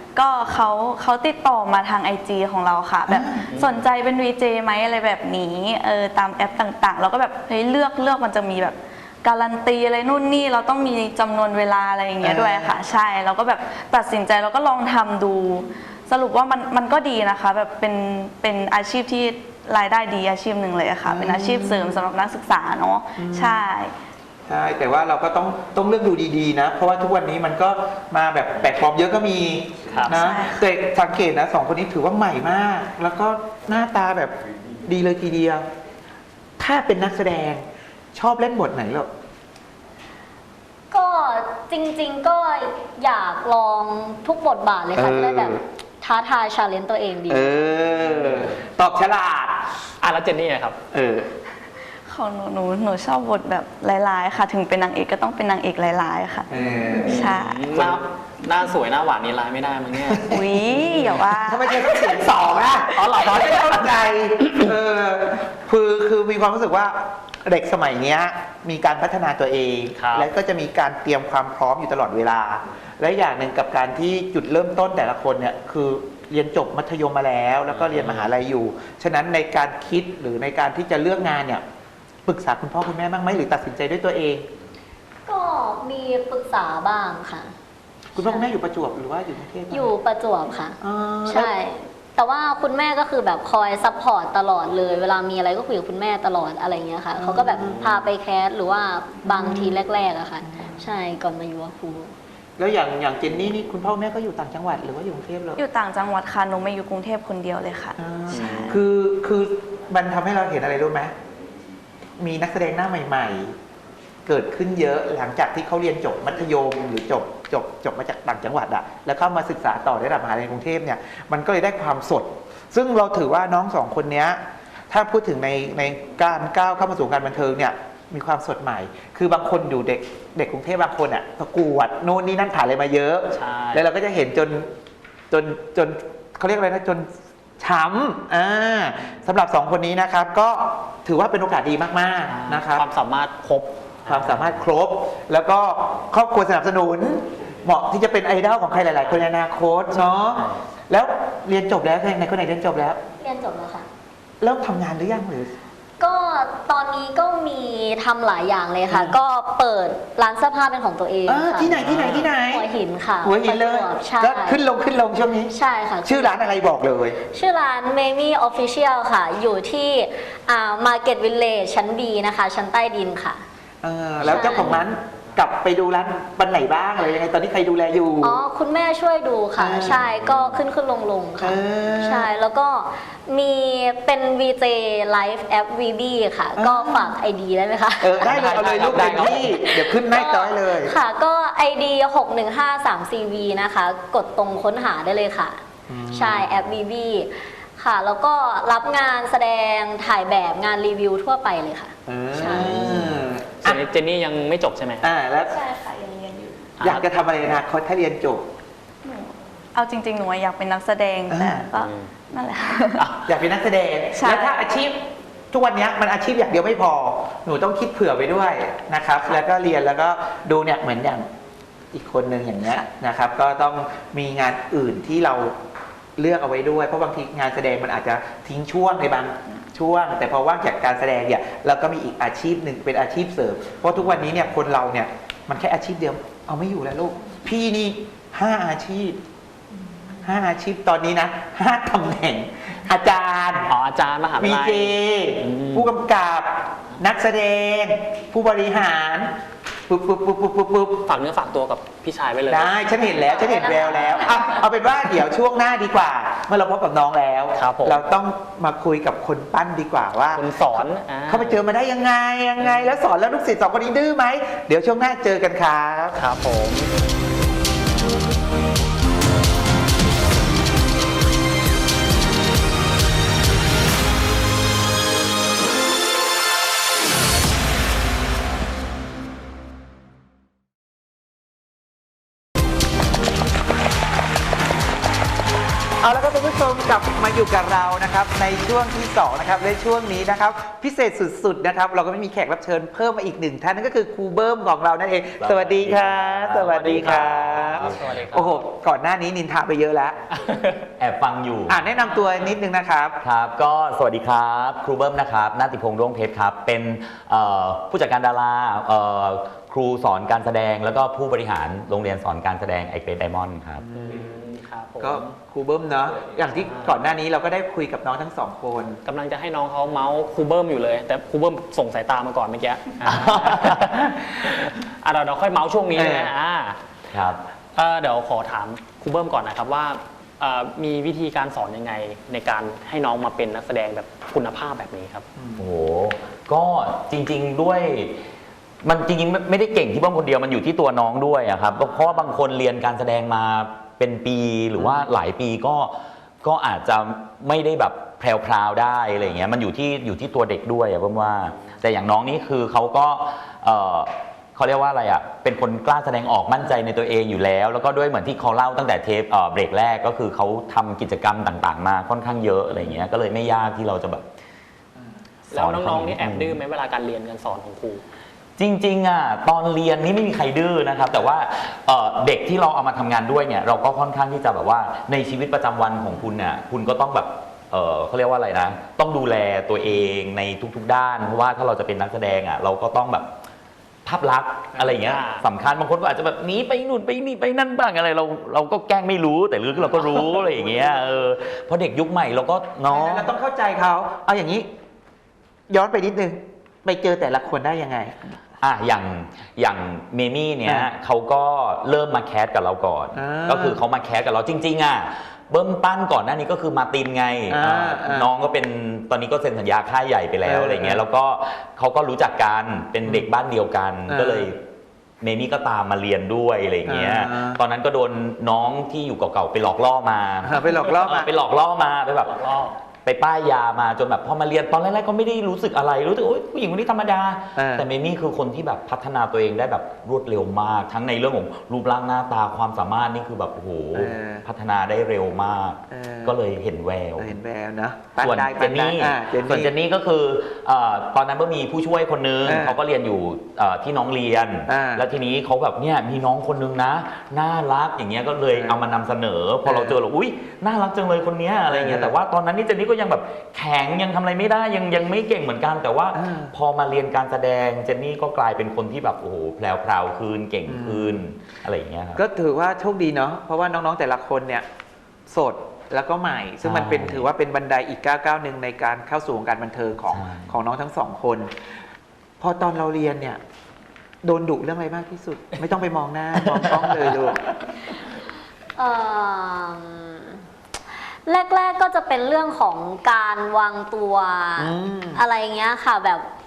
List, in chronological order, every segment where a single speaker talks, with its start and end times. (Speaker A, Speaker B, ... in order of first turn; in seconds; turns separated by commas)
Speaker A: 0.1-23.9, Speaker B: 3.1-3.4, Speaker C: 3.5-3.8, Speaker B: 12.2-12.8, Speaker B: 21.1-22.0, Speaker B: 23.2-23.7, Speaker B: 24.5-35.6, Speaker C: 29.9-30.2, Speaker A: 30.1-30.7, Speaker B: 36.6-39.1, Speaker D: 40.9-47.7, Speaker B: 45.0-45.6, Speaker B: 47.3-49.6, Speaker C: 48.1-48.5, Speaker C: 50.0-50.8, Speaker B: 50.9-51.3, Speaker A: 52.1-57.7, Speaker B: 56.5-58.0, Speaker C: 57.2-61.3, Speaker B: 60.3-60.6, Speaker A: 60.3-61.9, Speaker B: 61.4-81.6, Speaker C: 62.9-64.7, Speaker C: 70.0-70.3, Speaker C: 77.7-78.3, Speaker B: 82.3-84.5, Speaker D: 85.3-87.5, Speaker D: 88.2-88.5, Speaker B: 88.2-89.9, Speaker D: 89.7-102.1, Speaker B: 90.8-91.5, Speaker B: 97.2-98.0, Speaker B: 99.2-99.8, Speaker B: 100.5-100.8, Speaker B: 102.6-105.6, Speaker A: 105.6-108.8, Speaker B: 108.0-111.1, Speaker C: 108.3-108.8, Speaker B: 112.2-113.5, Speaker B: 114.3-134.7, Speaker C: 133.3-133.9, Speaker B: 135.3-137.1, Speaker B: 137.6-142.8, Speaker C: 142.3-144.5, Speaker B: 144.1-153.0, Speaker D: 153.2-153.9, Speaker B: 154.4-155.5, Speaker D: 156.0-161.8, Speaker B: 158.9-159.2, Speaker B: 161.3-162.7, Speaker C: 161.7-162.3, Speaker D: 162.3-164.7, Speaker B: 163.2-165.5, Speaker D: 165.5-166.6, Speaker B: 166.0-167.2, Speaker D: 167.3-173.4, Speaker B: 173.8-178.4, Speaker D: 174.2-174.7, Speaker C: 174.4-174.8, Speaker D: 178.2-195.6, Speaker B: 179.6-180.0, Speaker B: 181.4-182.3, Speaker B: 186.6-187.2, Speaker B: 188.0-190.9, Speaker C: 188.2-189.6, Speaker B: 195.9-196.5, Speaker D: 196.1-202.7, Speaker B: 202.1-203.8, Speaker C: 203.6-205.1, Speaker B: 205.0-205.6, Speaker A: 205.4-206.7, Speaker C: 206.8-207.1, Speaker B: 206.8-208.4, Speaker A: 209.0-213.1, Speaker B: 211.3-211.7, Speaker C: 211.7-212.1, Speaker C: 213.0-213.3, Speaker B: 213.3-215.0, Speaker A: 214.2-214.7, Speaker B: 215.5-221.3, Speaker B: 221.9-225.6, Speaker B: 226.2-239.2, Speaker B: 240.2-243.7, Speaker C: 243.7-245.9, Speaker B: 244.4-249.3, Speaker B: 249.9-251.1, Speaker C: 251.1-254.2, Speaker B: 252.5-266.2, Speaker D: 253.4-254.4, Speaker C: 257.6-258.0, Speaker C: 260.3-261.6, Speaker C: 262.6-263.0, Speaker C: 266.2-266.9, Speaker B: 286.0-300.2, Speaker E: 295.4-298.0, Speaker C: 296.6-298.6, Speaker C: 300.3-300.8, Speaker E: 301.0-301.9, Speaker B: 301.7-303.2, Speaker C: 302.0-302.6, Speaker E: 303.2-313.8, Speaker B: 313.8-314.4, Speaker C: 313.9-315.3, Speaker B: 315.0-319.0, Speaker C: 316.6-317.0, Speaker C: 319.1-326.8, Speaker E: 323.0-323.8, Speaker B: 325.9-326.3, Speaker E: 327.1-327.4, Speaker C: 327.8-335.3, Speaker B: 335.4-335.6, Speaker E: 335.6-338.1, Speaker E: 338.8-364.2, Speaker C: 341.7-342.4, Speaker E: 365.5-366.6, Speaker C: 365.5-368.0, Speaker E: 368.6-383.3, Speaker E: 384.1-393.3, Speaker C: 385.0-385.5, Speaker B: 392.9-394.7, Speaker B: 395.7-398.3, Speaker E: 398.6-414.6, Speaker B: 403.1-403.8, Speaker B: 407.5-408.3, Speaker B: 410.4-411.0, Speaker B: 414.1-414.5, Speaker E: 415.2-422.3, Speaker B: 416.9-417.6, Speaker B: 420.4-421.3, Speaker C: 422.2-422.8, Speaker E: 423.1-437.3, Speaker B: 427.6-427.9, Speaker B: 433.9-434.5, Speaker B: 435.9-436.4, Speaker B: 437.2-439.7, Speaker E: 438.2-462.2, Speaker B: 442.4-442.8, Speaker B: 444.7-445.1, Speaker B: 448.5-448.9, Speaker B: 449.6-450.0, Speaker B: 451.7-452.1, Speaker B: 456.1-456.5, Speaker B: 460.6-461.2, Speaker B: 462.1-464.6, Speaker B: 465.3-471.5, Speaker E: 466.6-467.3, Speaker E: 470.1-470.6, Speaker B: 472.4-473.4, Speaker B: 474.2-477.5, Speaker E: 476.5-477.2, Speaker D: 478.8-480.4, Speaker D: 481.3-486.3, Speaker B: 484.6-485.2